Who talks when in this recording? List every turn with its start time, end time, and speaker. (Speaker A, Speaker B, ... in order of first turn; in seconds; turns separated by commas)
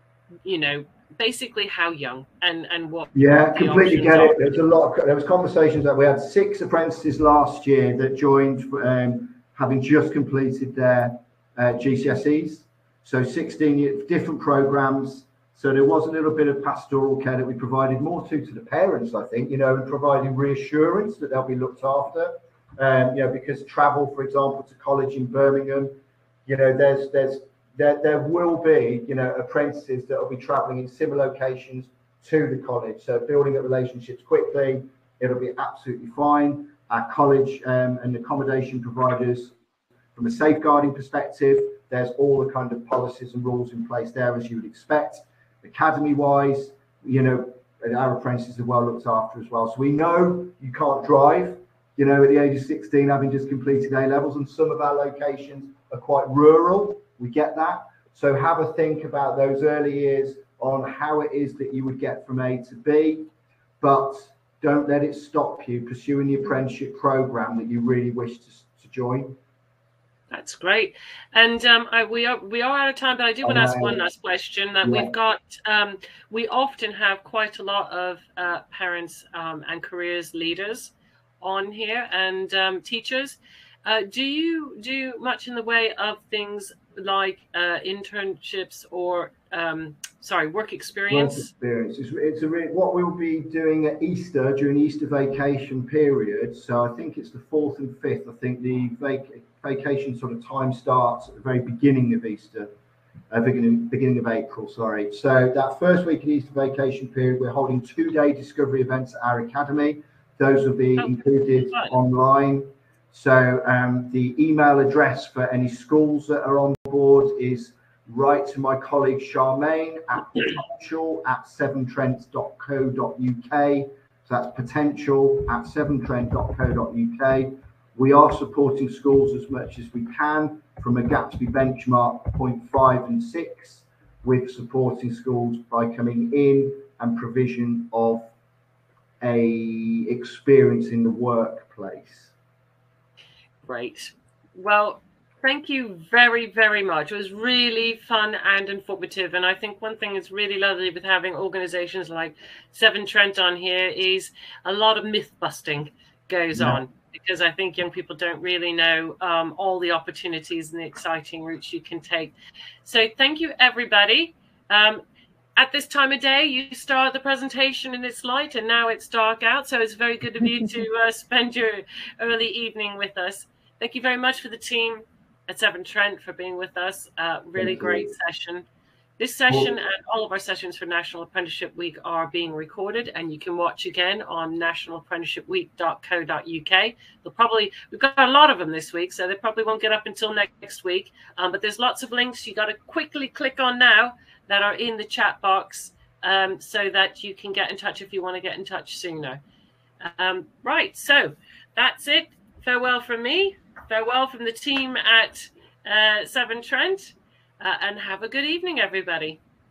Speaker A: 0.4-4.5, Speaker B: 3.1-39.5, Speaker B: 40.1-63.3, Speaker B: 63.8-69.4, Speaker A: 70.3-91.5, Speaker B: 73.4-74.0, Speaker B: 74.8-75.1, Speaker B: 91.1-102.7, Speaker B: 103.3-138.3, Speaker A: 111.7-111.9, Speaker B: 139.2-142.3, Speaker A: 143.6-165.0, Speaker B: 156.5-156.8, Speaker A: 165.6-178.6, Speaker B: 177.6-178.1, Speaker A: 179.2-199.4, Speaker B: 179.5-179.7, Speaker A: 200.0-209.4